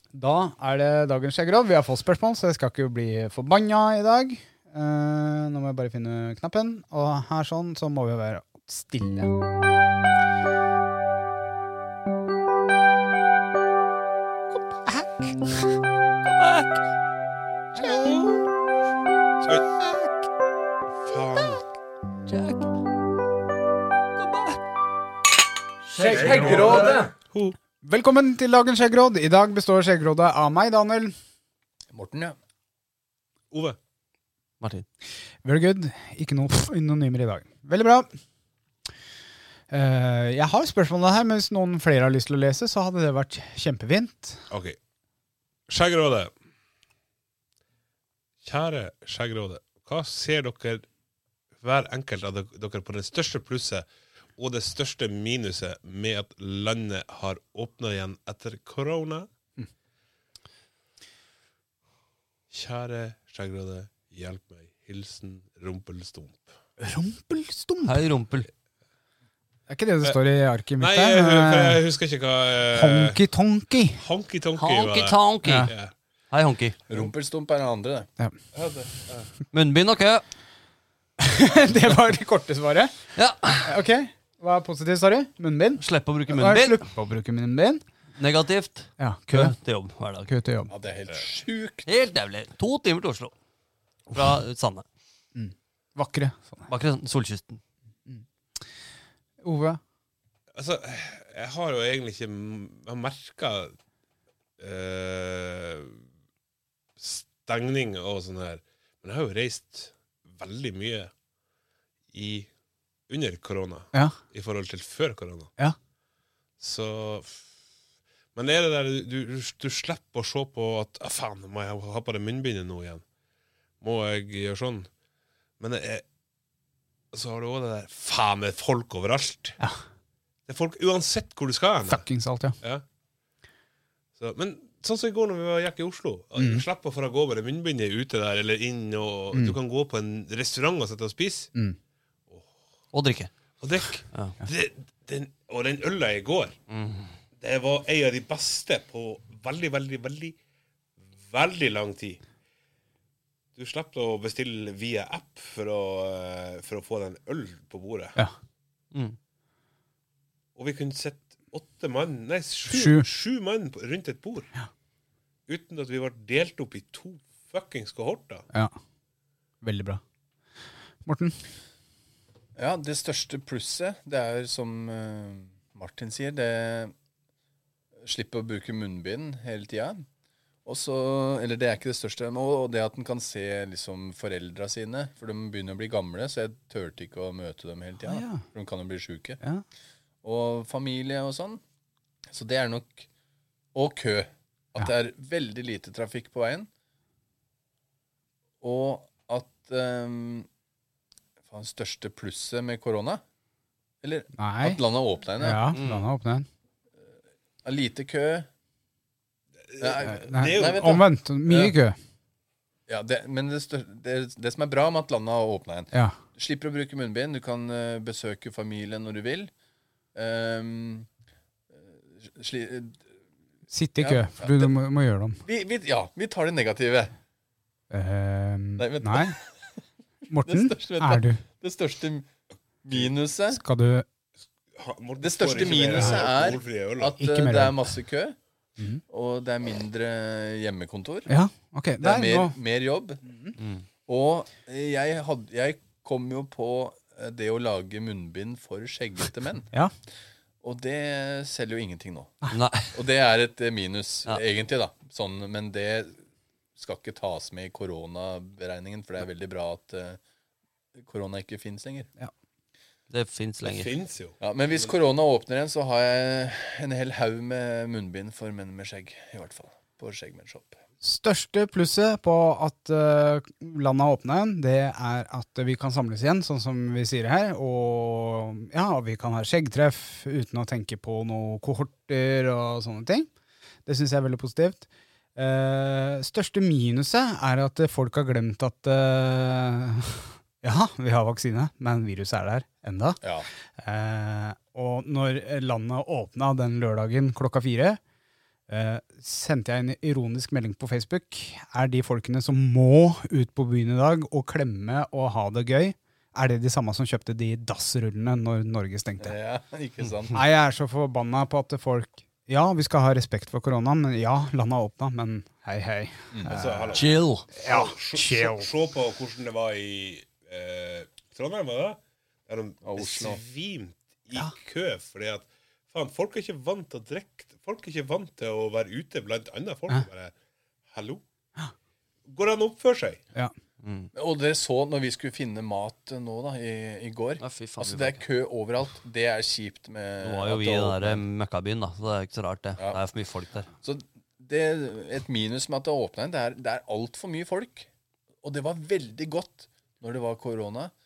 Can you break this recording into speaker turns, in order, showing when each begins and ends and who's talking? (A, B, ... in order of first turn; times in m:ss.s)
0:00.1-0:09.3 A
0:14.5-0:15.4 A
0:16.3-0:16.7 B
0:17.8-0:18.2 A
0:19.8-0:20.1 A
0:21.0-0:21.6 C
0:22.3-0:22.7 B
0:24.2-0:24.6 B
0:25.9-0:27.1 B
0:26.0-0:27.0 D
0:26.0-0:27.6 C
0:26.1-0:26.9 A
0:27.8-0:31.1 A
0:31.9-0:32.4 D
0:33.5-0:33.8 C
0:34.6-0:34.8 B
0:35.4-0:38.1 A
0:39.7-0:44.4 A
0:44.5-0:44.8 C
0:45.7-0:46.3 C
0:48.4-0:50.8 C
0:51.6-0:59.3 C
1:02.5-1:06.5 C
1:06.8-1:08.0 A
1:07.8-1:08.5 B
1:09.7-1:11.8 A
1:10.8-1:13.2 C
1:12.7-1:14.0 A
1:13.9-1:15.9 C
1:14.6-1:15.7 B
1:15.4-1:15.7 A
1:16.3-1:16.8 B
1:16.9-1:18.1 D
1:18.5-1:19.3 C
1:19.5-1:20.2 B
1:21.2-1:22.9 A
1:23.2-1:23.7 B
1:23.6-1:27.8 A
1:25.8-1:26.8 B
1:28.2-1:30.3 B
1:29.0-1:29.5 A
1:30.3-1:30.7 A
1:30.7-1:31.8 D
1:31.8-1:33.3 B
1:34.1-1:34.8 B
1:35.3-1:36.7 A
1:36.7-1:37.6 B
1:39.4-1:39.8 A
1:40.5-1:43.7 C
1:44.6-1:46.0 C
1:47.0-1:51.1 C
1:52.1-1:52.5 C
1:53.1-1:55.5 C
1:56.6-1:57.4 C
1:58.3-2:03.0 C
2:03.8-2:04.9 C
2:05.6-2:06.0 C
2:07.1-2:09.6 C
2:10.5-2:12.0 C
2:11.9-2:12.6 A
2:14.2-2:21.5 C
2:16.4-2:16.6 A
2:22.9-2:23.3 B
2:23.6-2:26.6 C
2:26.7-2:27.1 B
2:27.4-2:30.4 C
2:31.2-2:32.2 C
2:33.5-2:38.2 C
2:40.5-2:44.5 C
2:42.7-2:43.0 A
2:45.5-2:48.4 C
2:49.6-2:50.0 A
2:51.0-2:51.4 A
2:52.6-2:56.9 D
2:58.0-3:00.0 D
3:00.6-3:09.4 D
3:08.0-3:08.4 A
3:10.2-3:11.6 D
3:12.3-3:13.1 D
3:13.7-3:16.7 D
3:18.6-3:20.5 D
3:21.5-3:23.2 D
3:24.0-3:25.6 D
3:24.4-3:24.8 A
3:25.4-3:26.5 A
3:25.7-3:26.1 B
3:27.6-3:28.5 D
3:29.7-3:30.9 C
3:29.8-3:31.7 D
3:30.1-3:32.0 A
3:32.9-3:39.5 D
3:40.1-3:41.1 D
3:41.7-3:43.0 D
3:43.7-3:45.4 A
3:44.0-3:44.7 D
3:45.4-3:47.1 D
3:47.9-3:49.4 A
3:48.8-3:49.5 D
3:50.3-3:51.4 A
3:50.4-3:52.3 D
3:52.8-3:53.6 D
3:53.5-3:54.0 A
3:54.7-3:57.2 C
3:55.2-3:58.4 D
3:57.2-3:57.9 A
3:59.1-4:01.3 D
4:01.3-4:02.5 A
4:02.0-4:03.2 D
4:03.3-4:03.5 A
4:03.6-4:03.8 B
4:04.1-4:09.7 D
4:10.6-4:16.2 D
4:12.5-4:12.9 B
4:16.8-4:20.2 D
4:21.0-4:22.1 D
4:23.1-4:23.9 B
4:23.6-4:24.4 C
4:24.4-4:30.8 D
4:31.0-4:43.3 A
4:43.8-4:53.2 A
4:53.2-4:53.5 D
4:53.8-4:58.0 A
4:58.7-5:09.3 A
5:09.2-5:10.4 D
5:10.3-5:17.0 A
5:16.3-5:16.7 D
5:16.5-5:30.3 C
5:16.9-5:17.5 B
5:17.6-5:18.7 A
5:22.8-5:23.4 D
5:30.9-5:31.2 C
5:32.2-5:33.2 C
5:33.8-5:34.1 B
5:34.1-5:41.2 D
5:37.4-5:38.2 B
5:40.2-5:43.7 B
5:43.8-5:47.9 D
5:48.4-5:50.9 D